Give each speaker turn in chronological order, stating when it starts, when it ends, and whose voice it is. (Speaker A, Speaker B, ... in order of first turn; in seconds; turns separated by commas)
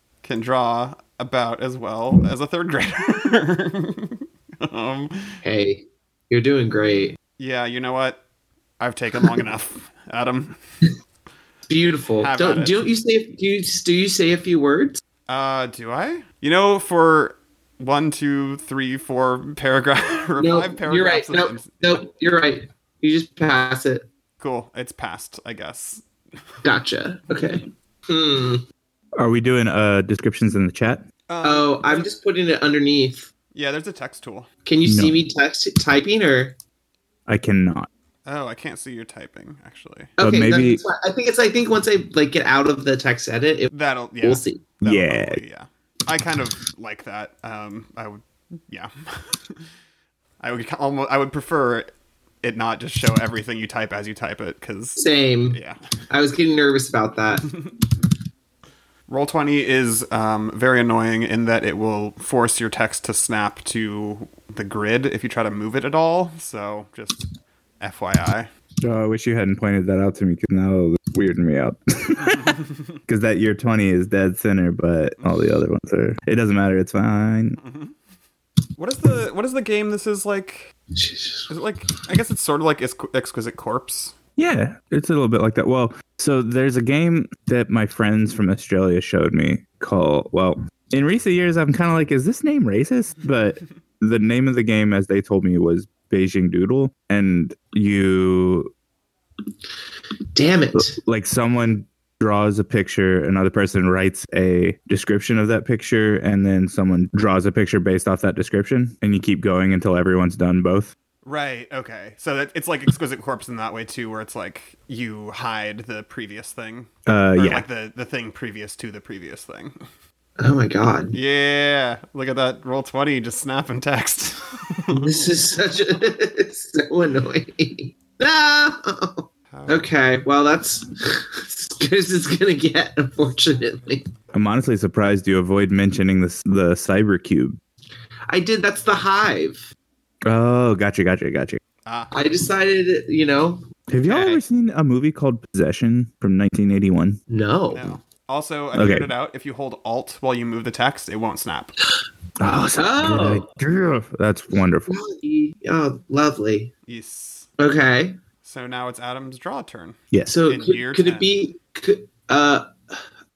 Speaker A: 0.2-5.4, Speaker B: 5.4-7.2, Speaker A: 7.4-8.2, Speaker A: 8.8-10.6, Speaker B: 11.7-15.0, Speaker A: 12.2-12.8, Speaker A: 15.3-22.0, Speaker B: 20.4-24.1, Speaker A: 24.4-26.1, Speaker B: 26.6-28.6, Speaker C: 29.2-31.1, Speaker A: 31.3-32.1, Speaker B: 31.4-33.3, Speaker A: 33.5-34.5, Speaker B: 34.6-36.5, Speaker C: 34.9-35.2, Speaker C: 37.3-37.9, Speaker A: 38.3-40.1, Speaker B: 40.2-44.6, Speaker C: 40.2-40.8, Speaker A: 43.7-49.6, Speaker C: 44.8-45.4, Speaker A: 50.4-51.9, Speaker A: 52.4-55.8, Speaker B: 55.0-55.6, Speaker B: 56.1-57.6, Speaker A: 59.1-67.2, Speaker A: 67.8-68.5, Speaker C: 68.8-77.6, Speaker A: 72.3-72.6, Speaker A: 77.6-78.0, Speaker A: 78.8-80.7, Speaker B: 80.9-81.5, Speaker A: 81.5-84.1, Speaker C: 84.4-98.7, Speaker B: 100.3-101.0, Speaker C: 100.8-110.9, Speaker A: 111.2-119.8, Speaker C: 117.1-117.7, Speaker B: 120.4-121.2, Speaker A: 121.1-125.0, Speaker B: 124.9-134.0, Speaker A: 129.5-129.9, Speaker C: 134.3-137.6, Speaker B: 138.3-139.7, Speaker C: 140.3-141.6, Speaker A: 141.9-142.2, Speaker B: 142.1-143.6, Speaker C: 143.9-147.2, Speaker A: 144.1-144.4, Speaker B: 147.3-147.9, Speaker A: 147.7-151.8, Speaker C: 148.7-149.1, Speaker C: 152.4-154.9, Speaker B: 152.8-153.5, Speaker B: 154.9-156.7, Speaker A: 156.9-157.5, Speaker B: 157.6-158.2, Speaker A: 158.4-161.4, Speaker B: 160.3-163.0